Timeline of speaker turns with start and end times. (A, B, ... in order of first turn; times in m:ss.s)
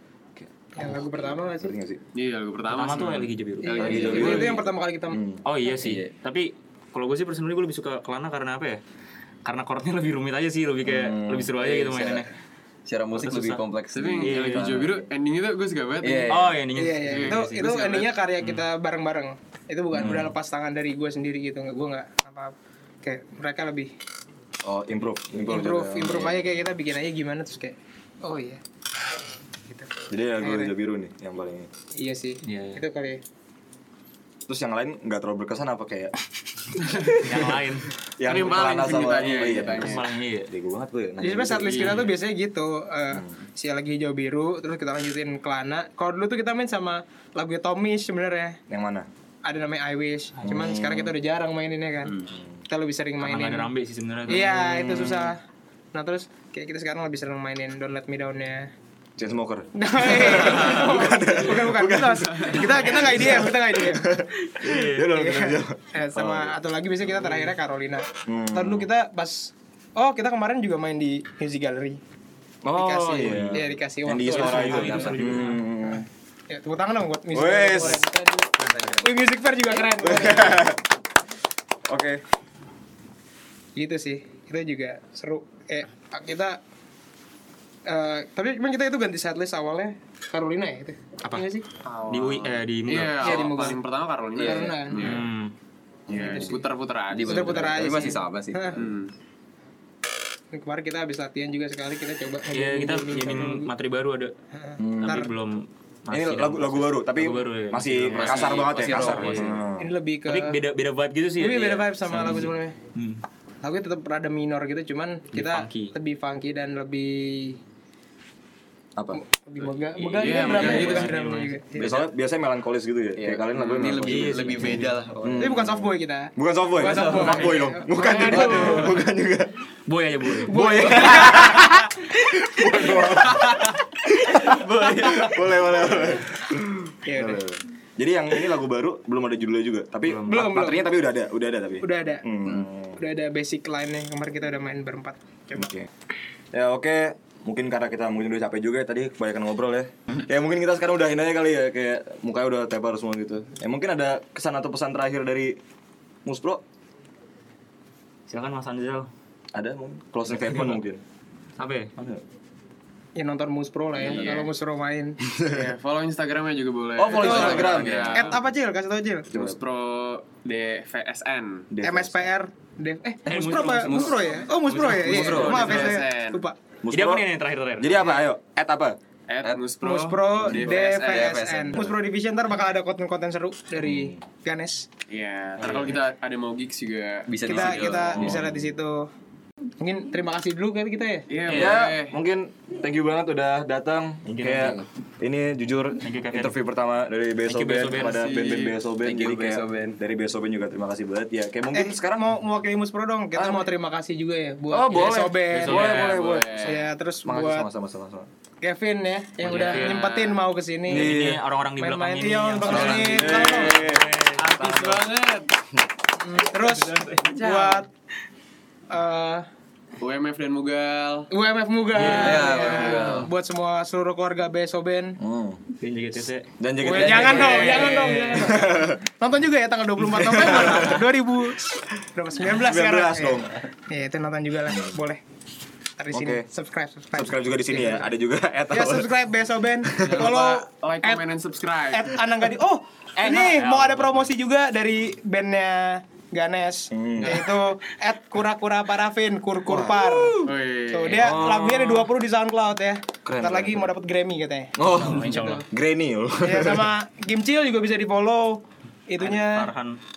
0:00.4-0:02.0 A
0:00.7-0:01.7 B
0:02.1-0:04.6 C
0:02.7-0:04.6 D
0:03.6-0:05.2 B
0:03.8-0:05.4 A
0:05.4-0:08.8 D
0:05.7-0:06.1 E
0:09.4-0:12.3 D
0:10.8-0:11.5 A
0:11.6-0:12.3 E
0:12.8-0:15.0 E
0:13.1-0:13.6 D
0:13.9-0:18.1 C
0:14.2-0:14.8 D
0:16.0-0:16.5 E
0:16.3-0:18.6 D
0:16.7-0:23.9 B
0:20.0-0:20.2 D
0:20.0-0:20.3 A
0:24.6-0:26.5 A
0:25.3-0:28.6 B
0:30.1-0:31.7 A
0:30.4-0:30.7 B
0:32.0-0:33.2 B
0:32.4-0:32.8 D
0:34.5-0:36.1 A
0:36.9-0:37.6 A
0:37.0-0:37.9 D
0:38.2-0:42.0 A
0:38.2-0:40.1 C
0:39.2-0:40.5 D
0:41.2-0:48.6 B
0:41.6-0:42.1 C
0:48.7-0:49.1 A
0:49.4-0:52.2 B
0:50.4-0:51.1 A
0:52.1-0:52.3 E
0:52.2-0:52.6 A
0:52.7-0:53.7 B
0:53.2-0:55.3 D
0:54.3-0:55.4 B
0:55.9-0:58.7 B
0:59.2-1:06.6 A
0:59.7-1:04.1 B
1:04.6-1:05.1 D
1:05.0-1:12.0 B
1:08.2-1:08.9 A
1:12.6-1:16.1 A
1:12.7-1:15.1 B
1:13.1-1:13.6 D
1:14.1-1:15.7 D
1:16.5-1:20.7 B
1:17.3-1:18.0 A
1:18.6-1:19.0 E
1:19.8-1:20.8 A
1:21.9-1:22.2 A
1:23.8-1:26.6 B
1:27.9-1:31.6 B
1:31.8-1:35.3 C
1:32.1-1:33.5 D
1:33.2-1:33.8 B
1:34.4-1:34.8 E
1:34.4-1:35.2 B
1:35.0-1:35.5 D
1:36.1-1:38.1 C
1:36.1-1:36.4 A
1:36.1-1:36.5 E
1:37.1-1:38.9 E
1:37.3-1:38.8 B
1:38.8-1:39.1 C
1:40.5-1:43.7 B
1:42.5-1:44.3 D
1:44.6-1:45.3 B
1:44.8-1:45.2 A
1:45.0-1:49.6 D
1:46.1-1:49.9 A
1:48.1-1:49.6 E
1:49.8-1:50.6 B
1:50.3-1:53.2 D
1:51.4-1:52.8 B
1:53.6-1:57.6 B
1:55.3-1:55.9 D
1:59.1-2:02.0 B
2:00.0-2:01.6 D
2:00.1-2:01.2 C
2:01.8-2:09.6 A
2:03.2-2:05.5 E
2:03.8-2:05.0 D
2:05.4-2:09.0 B
2:06.8-2:07.5 E
2:08.3-2:08.9 D
2:09.9-2:10.9 D
2:10.3-2:23.0 A
2:10.5-2:11.8 B
2:13.0-2:13.7 E
2:14.4-2:15.5 E
2:17.0-2:17.4 B
2:20.1-2:20.9 B
2:21.8-2:22.2 B
2:23.0-2:25.7 B
2:25.6-2:25.9 A
2:26.5-2:35.6 A
2:36.2-2:36.6 A
2:38.3-2:39.1 D
2:39.5-2:41.0 A
2:40.3-2:40.7 D
2:41.6-2:41.9 D
2:42.0-2:42.2 A
2:43.2-2:45.2 B
2:44.0-2:44.5 C
2:45.3-2:45.7 A
2:45.4-2:48.4 C
2:47.0-2:48.3 A
2:47.1-2:49.3 B
2:49.3-2:49.6 A
2:49.3-2:51.7 C
2:51.7-2:52.3 A
2:51.8-2:56.6 B
2:53.2-2:55.6 D
2:53.5-2:55.9 E
2:55.2-2:56.4 C
2:56.8-2:57.2 A
2:56.9-2:58.0 D
2:57.8-2:59.0 A
2:59.3-3:01.4 C
2:59.8-3:04.9 B
3:00.4-3:01.9 E
3:03.8-3:04.2 A
3:05.1-3:07.9 C
3:05.6-3:06.0 D
3:07.3-3:08.4 E
3:07.4-3:09.1 B
3:08.1-3:08.7 A
3:09.8-3:11.3 B
3:11.3-3:12.2 C
3:11.5-3:22.3 A
3:14.2-3:14.8 D
3:16.0-3:16.5 D
3:17.4-3:18.2 D
3:18.0-3:18.8 C
3:19.0-3:20.0 E
3:21.7-3:25.8 B
3:23.3-3:23.7 A
3:24.7-3:26.7 A
3:25.0-3:26.3 D
3:25.6-3:26.9 C
3:26.6-3:27.7 B
3:27.2-3:28.3 A
3:28.6-3:31.2 B
3:29.4-3:30.0 D
3:29.4-3:30.4 C
3:30.9-3:31.4 A
3:30.9-3:34.6 D
3:31.8-3:33.7 B
3:32.7-3:34.1 A
3:32.8-3:35.5 C
3:36.2-3:37.9 B
3:36.8-3:37.8 C
3:38.9-3:39.4 B
3:40.0-3:41.3 C
3:41.3-3:45.2 B
3:42.0-3:42.4 D
3:42.0-3:43.3 E
3:42.0-3:43.3 C
3:45.2-3:45.7 A
3:45.8-3:46.5 D
3:46.6-3:49.0 A
3:46.8-3:55.2 B
3:47.0-3:47.3 E
3:47.3-3:48.2 C
3:47.3-3:48.1 D
3:50.1-3:51.1 A
3:52.4-3:53.6 A
3:54.7-3:55.0 A
3:56.0-3:58.1 B
3:56.1-3:56.4 A
3:57.1-3:59.1 A
3:58.7-4:01.2 B
3:59.8-4:00.2 A
4:00.0-4:02.2 C
4:01.9-4:15.6 B
4:03.2-4:04.3 D
4:06.9-4:07.4 A
4:07.2-4:07.5 C
4:09.7-4:10.5 A
4:10.4-4:11.4 C
4:11.1-4:12.1 A
4:13.2-4:13.9 A
4:14.8-4:16.9 A
4:14.9-4:15.6 D
4:16.4-4:19.7 B
4:19.2-4:20.0 D